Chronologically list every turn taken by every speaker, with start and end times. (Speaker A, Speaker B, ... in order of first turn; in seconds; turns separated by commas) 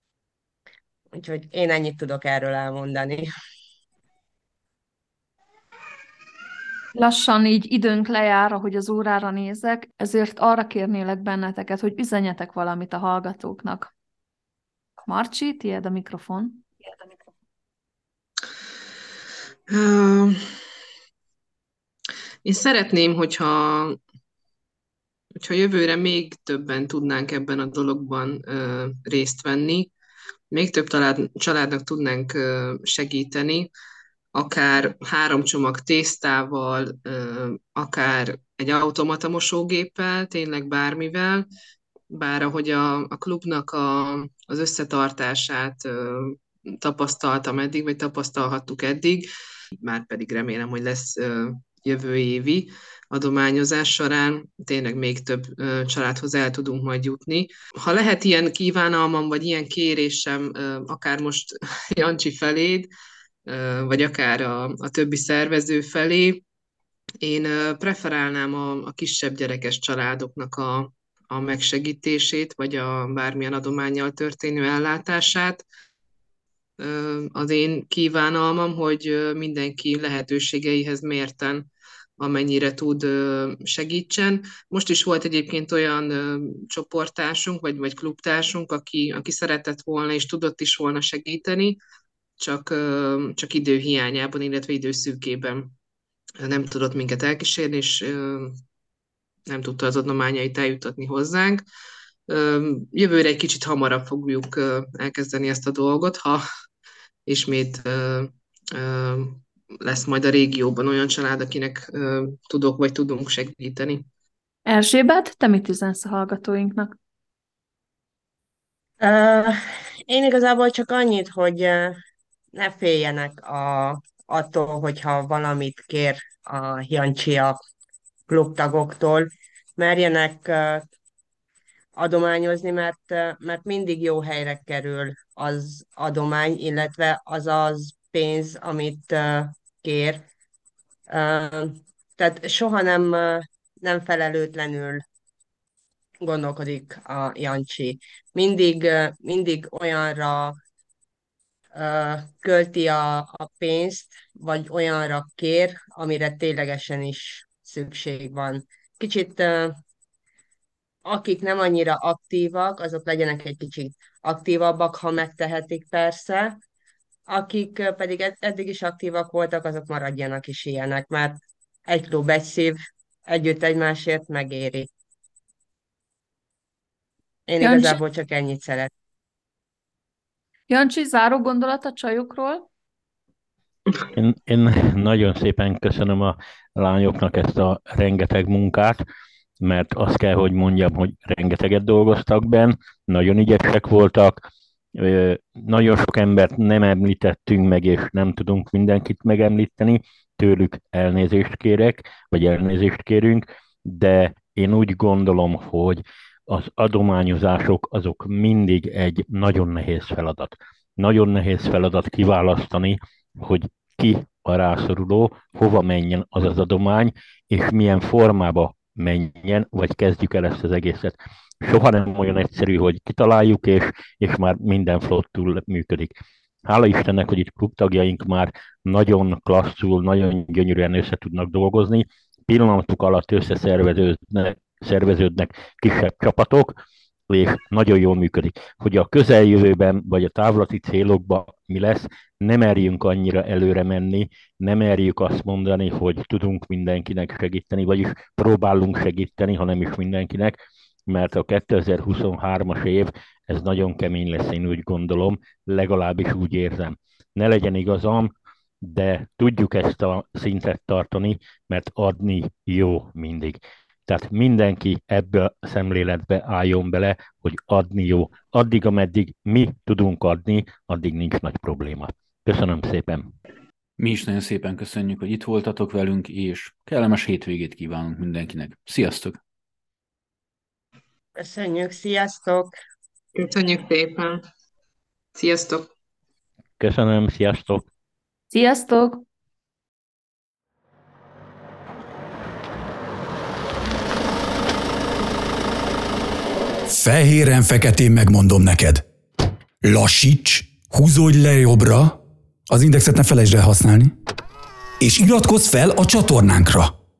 Speaker A: 1.1-3.3, Speaker B: 6.9-13.9, Speaker B: 15.0-16.7, Speaker C: 19.7-20.4, Speaker C: 22.4-24.0, Speaker C: 25.4-29.9, Speaker C: 30.5-33.7, Speaker C: 34.3-41.5, Speaker C: 42.1-62.9, Speaker C: 63.5-66.4, Speaker C: 67.2-75.6, Speaker C: 76.8-81.7, Speaker C: 82.2-91.8, Speaker C: 92.4-95.7, Speaker C: 96.4-98.6, Speaker C: 99.5-101.6, Speaker C: 102.3-106.4, Speaker C: 107.2-114.0, Speaker B: 114.7-116.9, Speaker A: 119.0-122.0, Speaker A: 122.5-127.6, Speaker A: 128.3-130.8, Speaker A: 132.0-140.2, Speaker A: 141.1-145.0, Speaker A: 146.2-150.6, Speaker A: 151.7-159.8, Speaker A: 161.0-166.6, Speaker A: 167.3-174.9, Speaker A: 177.5-178.9, Speaker B: 177.6-178.0, Speaker B: 180.7-182.7, Speaker D: 184.1-189.0, Speaker D: 189.6-194.4, Speaker D: 194.9-273.3, Speaker E: 274.0-279.4, Speaker A: 281.4-282.7, Speaker C: 283.3-284.4, Speaker C: 285.3-285.9, Speaker D: 286.8-287.9, Speaker B: 288.5-289.2, Speaker F: 296.9-299.0, Speaker F: 299.8-304.1, Speaker F: 305.0-306.9